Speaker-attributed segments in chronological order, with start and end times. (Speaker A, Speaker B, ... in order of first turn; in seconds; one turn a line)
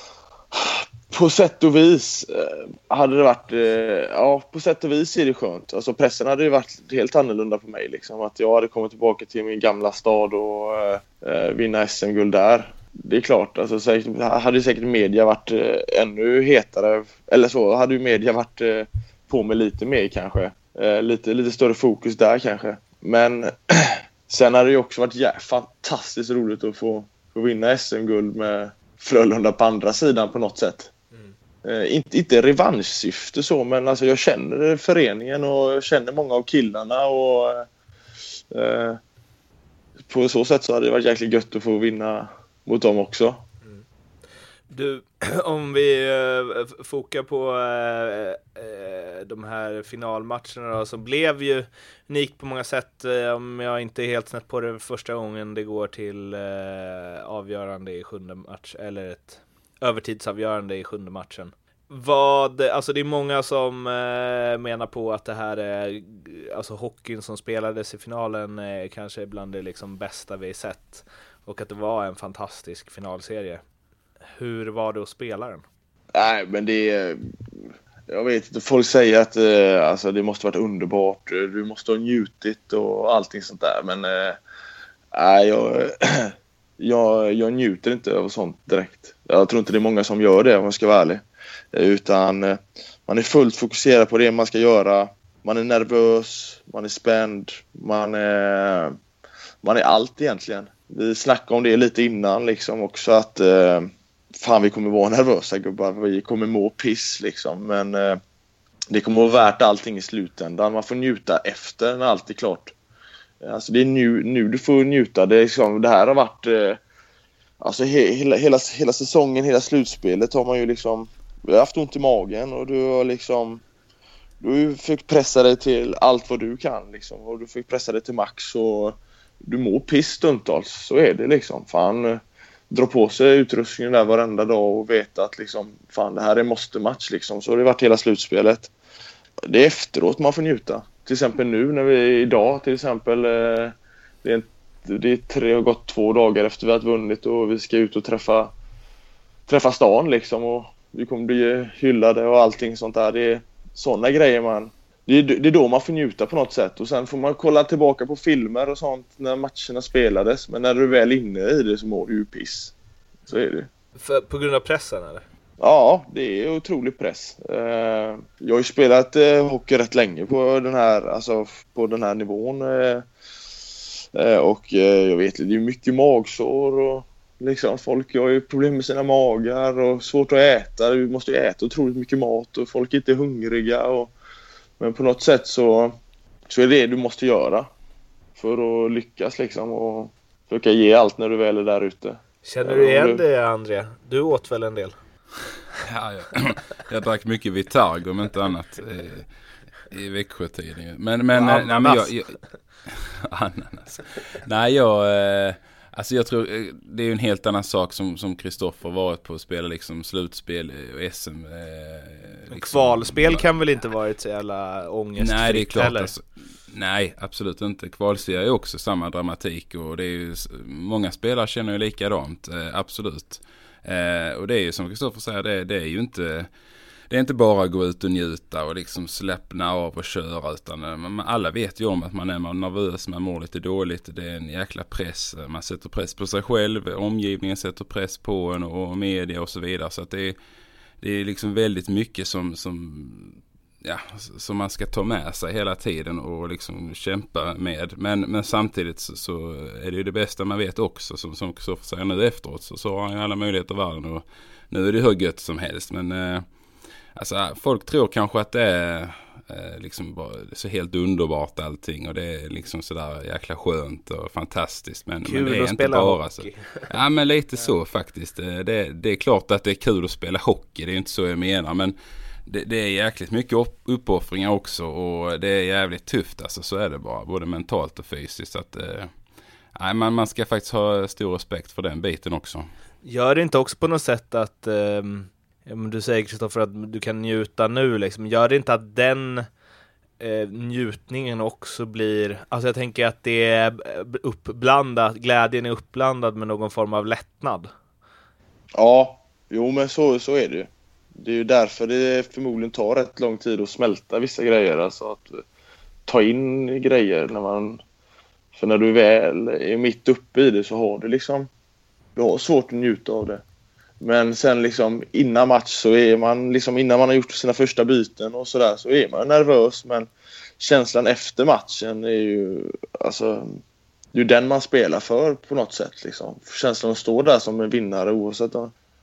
Speaker A: 0.5-30.9
Speaker A: 31.6-37.7
Speaker A: 38.5-39.0
Speaker A: 40.0-43.4
Speaker B: 44.7-73.6
Speaker B: 74.4-75.6
Speaker A: 76.1-84.4
Speaker A: 85.1-99.0
Speaker A: 99.6-108.2
Speaker A: 108.9-112.8
Speaker A: 113.4-116.8
Speaker A: 117.6-123.6
Speaker A: 124.4-138.7
Speaker A: 139.4-148.5
Speaker A: 149.5-162.7
Speaker A: 163.3-163.7
Speaker B: 164.0-165.2
Speaker A: 165.6-173.1
Speaker A: 174.2-184.1
Speaker A: 184.8-186.0
Speaker A: 186.5-187.7
Speaker A: 188.4-193.2
Speaker B: 192.4-194.9
Speaker C: 195.8-199.3
Speaker C: 199.9-213.5
Speaker B: 201.3-202.1
Speaker B: 212.5-216.1
Speaker C: 215.2-226.5
Speaker C: 227.1-240.4
Speaker C: 241.0-256.4
Speaker C: 257.2-271.9
Speaker B: 265.2-266.9
Speaker C: 272.5-279.1
Speaker C: 279.8-282.7
Speaker B: 283.1-289.5
Speaker B: 290.2-297.7
Speaker A: 298.8-305.4
Speaker A: 306.1-307.8
Speaker A: 308.6-311.5
Speaker A: 312.2-313.4
Speaker A: 314.0-323.6
Speaker A: 324.1-328.7